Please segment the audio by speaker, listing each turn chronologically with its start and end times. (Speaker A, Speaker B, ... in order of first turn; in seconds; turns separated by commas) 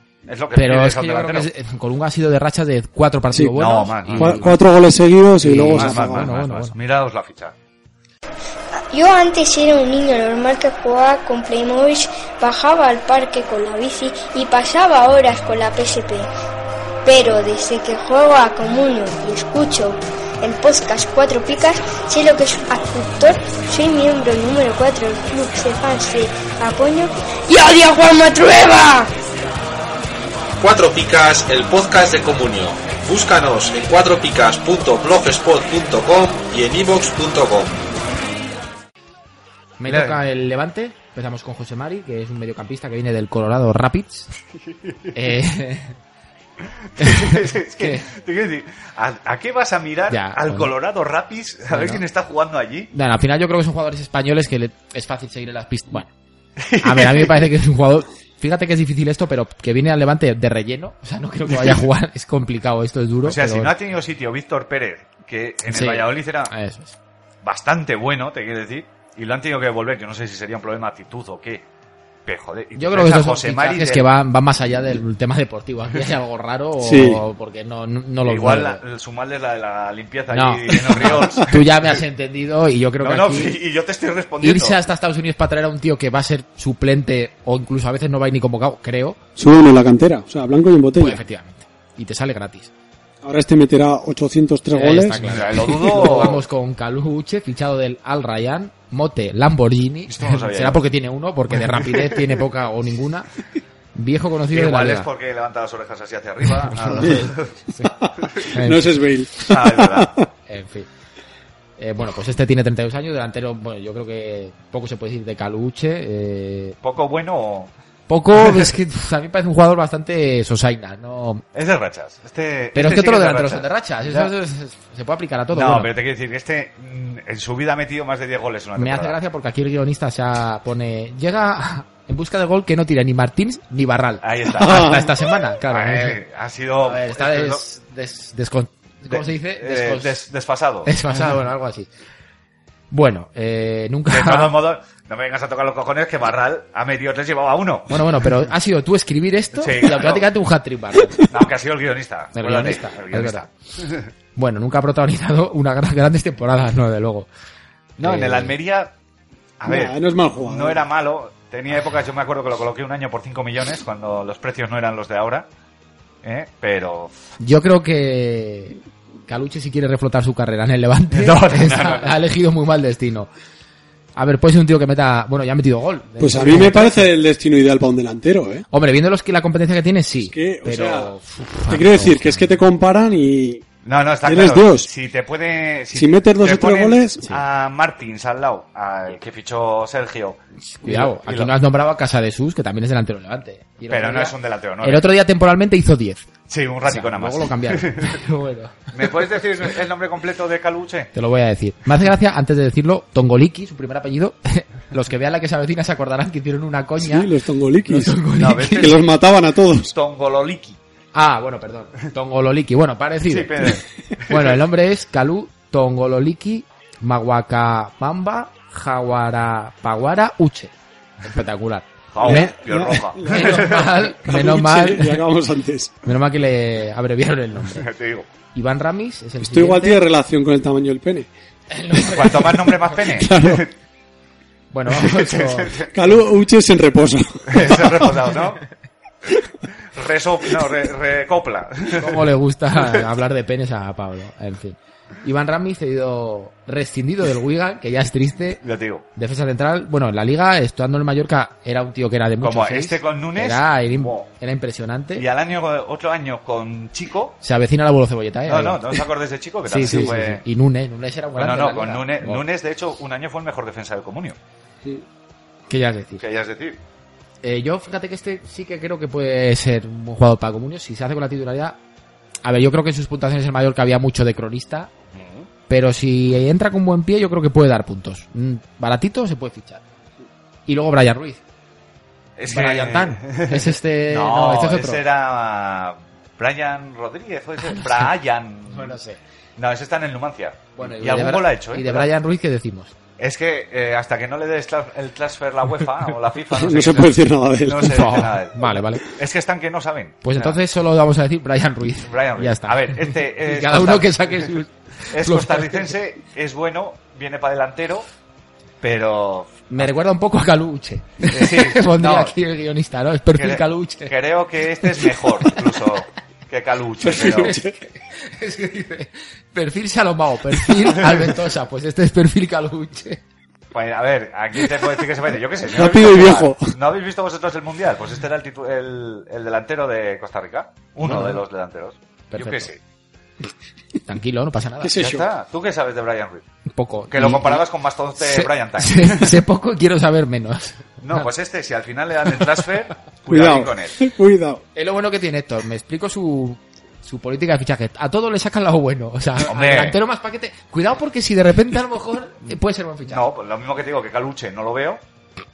Speaker A: 0.2-1.5, Speaker B: 0.5-4.5, Speaker C: 3.3-3.6, Speaker A: 3.5-4.5, Speaker C: 4.1-6.3, Speaker B: 5.4-6.7, Speaker A: 5.7-7.5, Speaker D: 8.9-16.3, Speaker D: 17.0-29.1, Speaker E: 30.6-37.8, Speaker B: 39.8-44.3, Speaker A: 39.9-40.2, Speaker A: 44.7-45.1, Speaker B: 45.1-46.0, Speaker A: 46.8-52.9, Speaker B: 47.0-48.1, Speaker B: 50.1-50.7, Speaker B: 51.7-52.0, Speaker B: 52.9-56.1, Speaker A: 56.6-57.5, Speaker B: 56.8-63.7, Speaker A: 61.5-61.8, Speaker A: 63.2-66.5, Speaker B: 65.7-67.0, Speaker A: 67.4-71.6, Speaker A: 72.2-74.1, Speaker B: 72.8-78.8, Speaker C: 76.8-77.2, Speaker A: 78.2-81.8, Speaker B: 80.3-83.5, Speaker A: 83.0-84.8, Speaker B: 84.4-89.2, Speaker C: 89.4-91.2, Speaker B: 91.0-92.7, Speaker C: 93.2-96.2, Speaker B: 94.7-103.3, Speaker A: 95.2-96.4, Speaker A: 100.1-100.8, Speaker A: 101.5-102.4, Speaker B: 103.9-105.1, Speaker A: 104.5-107.5, Speaker B: 106.7-108.8, Speaker C: 107.8-110.3, Speaker A: 109.5-110.2, Speaker B: 110.5-110.9, Speaker B: 111.8-116.8, Speaker A: 116.8-117.7, Speaker B: 118.1-121.4, Speaker A: 118.4-118.7, Speaker A: 121.5-124.3, Speaker B: 122.7-125.9, Speaker A: 125.5-129.2, Speaker B: 128.8-136.2, Speaker A: 134.2-135.1, Speaker C: 134.6-135.1, Speaker A: 135.7-137.6, Speaker B: 136.8-140.2, Speaker A: 139.1-141.0, Speaker B: 140.8-141.9, Speaker B: 142.9-144.5, Speaker A: 144.1-148.3, Speaker B: 147.9-151.3, Speaker A: 149.6-150.3, Speaker A: 151.2-154.0, Speaker B: 152.3-153.5, Speaker B: 154.3-157.3, Speaker A: 158.0-158.9, Speaker B: 158.0-158.5, Speaker A: 159.6-165.5, Speaker C: 159.7-160.8, Speaker A: 166.2-167.1, Speaker B: 167.4-173.3, Speaker A: 171.1-172.2, Speaker B: 174.1-177.1, Speaker C: 176.2-178.6, Speaker B: 178.7-182.6, Speaker C: 180.2-181.1, Speaker C: 181.7-183.7, Speaker A: 183.8-191.5, Speaker C: 184.2-184.9, Speaker C: 185.9-187.3, Speaker B: 190.8-196.3, Speaker A: 193.9-195.1, Speaker A: 196.5-198.2, Speaker B: 196.8-198.9, Speaker A: 198.9-201.1, Speaker B: 201.1-207.3, Speaker C: 207.0-209.9, Speaker B: 207.8-208.9, Speaker A: 208.4-209.0, Speaker A: 209.9-210.8, Speaker B: 211.1-213.7, Speaker A: 213.3-214.6, Speaker B: 214.3-222.6, Speaker A: 222.1-224.0, Speaker C: 222.2-226.1, Speaker B: 223.2-225.2, Speaker B: 226.0-227.9, Speaker A: 227.7-228.3, Speaker B: 228.5-230.0, Speaker C: 229.4-231.3, Speaker B: 231.7-233.0, Speaker A: 232.0-233.7, Speaker C: 233.1-233.7, Speaker B: 234.7-235.8, Speaker A: 234.9-235.9, Speaker C: 235.9-238.3, Speaker A: 237.5-238.6, Speaker A: 239.9-242.3, Speaker B: 241.9-248.6, Speaker A: 248.6-249.1, Speaker B: 249.2-255.2, Speaker A: 252.4-254.3, Speaker A: 255.2-257.4, Speaker B: 257.4-259.0, Speaker A: 258.5-260.4, Speaker B: 259.6-262.4, Speaker A: 261.4-264.4, Speaker B: 265.7-266.2, Speaker A: 266.2-266.8, Speaker B: 267.4-271.8, Speaker B: 272.4-274.9, Speaker A: 275.1-275.5, Speaker B: 275.7-279.8, Speaker B: 280.7-281.4, Speaker A: 282.4-289.0, Speaker B: 282.5-285.0, Speaker B: 287.6-288.1, Speaker B: 288.7-289.2, Speaker A: 289.6-292.1, Speaker B: 290.8-292.9, Speaker A: 293.2-300.6, Speaker C: 296.5-298.3, Speaker B: 297.8-299.0, Speaker B: 300.2-305.9, Speaker A: 302.0-304.5, Speaker A: 305.1-308.1, Speaker A: 308.8-309.9, Speaker B: 309.7-314.1, Speaker A: 311.2-312.4, Speaker A: 313.4-317.6, Speaker B: 314.9-315.8, Speaker C: 317.0-317.8, Speaker B: 317.2-323.2, Speaker A: 323.7-332.8, Speaker C: 325.7-326.8, Speaker B: 331.0-331.4, Speaker B: 332.3-332.7, Speaker B: 334.0-334.9, Speaker C: 334.8-335.3, Speaker A: 334.9-336.4, Speaker B: 336.7-337.6, Speaker A: 337.1-339.4, Speaker B: 338.2-341.3, Speaker A: 341.0-344.0, Speaker C: 343.3-344.6, Speaker B: 344.7-353.2, Speaker A: 349.4-350.0, Speaker A: 353.1-355.0